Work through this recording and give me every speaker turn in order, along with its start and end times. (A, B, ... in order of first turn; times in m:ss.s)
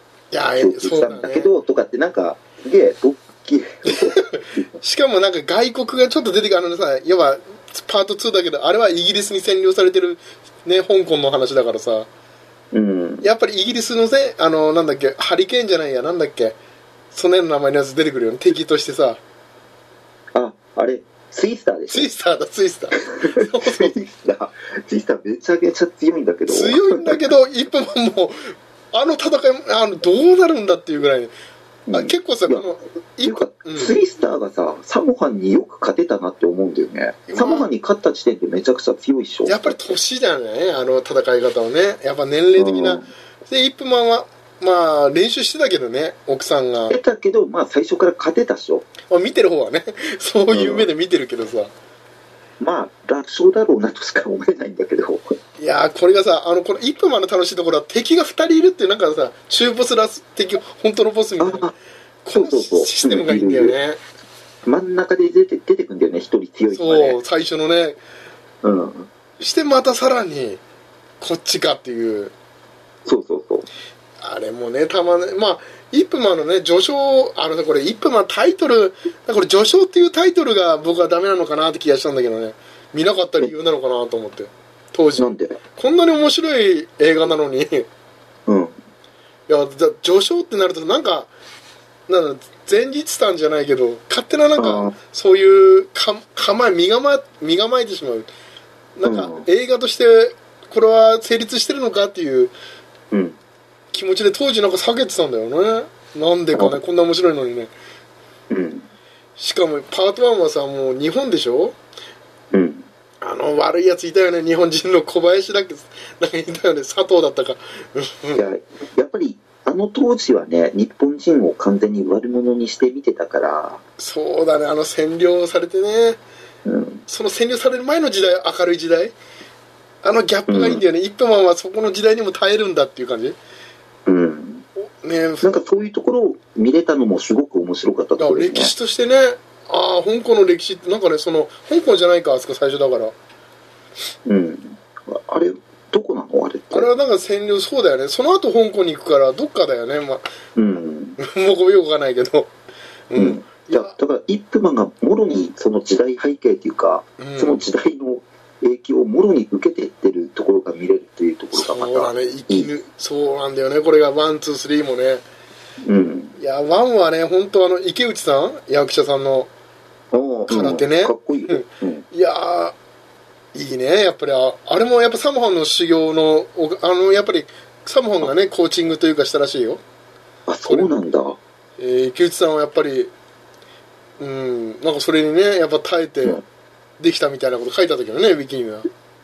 0:00.3-0:01.5 A
0:00.6-0:04.6 B
0:03.9-0:12.1 A
0:12.7-0:13.2 B
0:13.2-0:16.6 A
0:17.1-0:19.2 A
0:20.3-0:22.1 B
0:21.9-0:24.0 A
0:23.1-0:27.3 B
0:26.5-0:31.3 A
0:31.9-0:32.6 B
0:31.9-0:34.0 A
0:33.2-0:39.8 B
0:37.3-0:37.7 A
0:39.5-0:47.0 A
0:42.6-0:43.1 B
0:46.9-0:48.9 B
0:49.1-0:51.7 A
0:50.5-0:50.9 B
0:52.6-0:55.3 B
0:55.6-1:01.7 A
1:01.4-1:01.7 B
1:02.2-1:04.0 A
1:02.3-1:03.8 B
1:04.6-1:07.2 B
1:06.7-1:08.0 A
1:08.6-1:09.1 B
1:09.4-1:10.6 A
1:11.2-1:12.3 A
1:13.1-1:13.7 B
1:14.2-1:27.9 A
1:25.2-1:25.6 B
1:28.5-1:28.8 B
1:29.5-1:31.3 A
1:32.1-1:38.3 A
1:34.6-1:34.9 B
1:39.0-1:42.5 A
1:39.0-1:39.5 B
1:43.1-1:43.4 B
1:43.9-1:47.7 A
1:48.5-1:48.9 B
1:49.4-1:51.8 A
1:52.5-1:52.9 B
1:53.2-1:58.4 A
1:58.4-2:03.8 B
2:04.0-2:06.2 A
2:06.6-2:07.0 B
2:07.1-2:09.2 A
2:10.0-2:13.4 A
2:10.5-2:10.8 B
2:14.1-2:14.6 B
2:14.8-2:15.6 A
2:15.4-2:18.7 B
2:18.2-2:23.2 A
2:24.3-2:26.9 B
2:26.7-2:30.3 A
2:30.6-2:31.2 B
2:31.2-2:32.5 A
2:33.1-2:34.0 A
2:33.2-2:42.7 B
2:37.2-2:37.6 A
2:41.6-2:45.2 A
2:45.8-2:46.4 B
2:46.4-2:49.5 A
2:50.1-2:52.0 B
2:50.5-2:52.8 A
2:53.5-2:59.8 A
3:00.5-3:01.4 B
3:00.7-3:00.9 A
3:01.8-3:03.1 A
3:04.2-3:06.4 A
3:07.0-3:08.9 A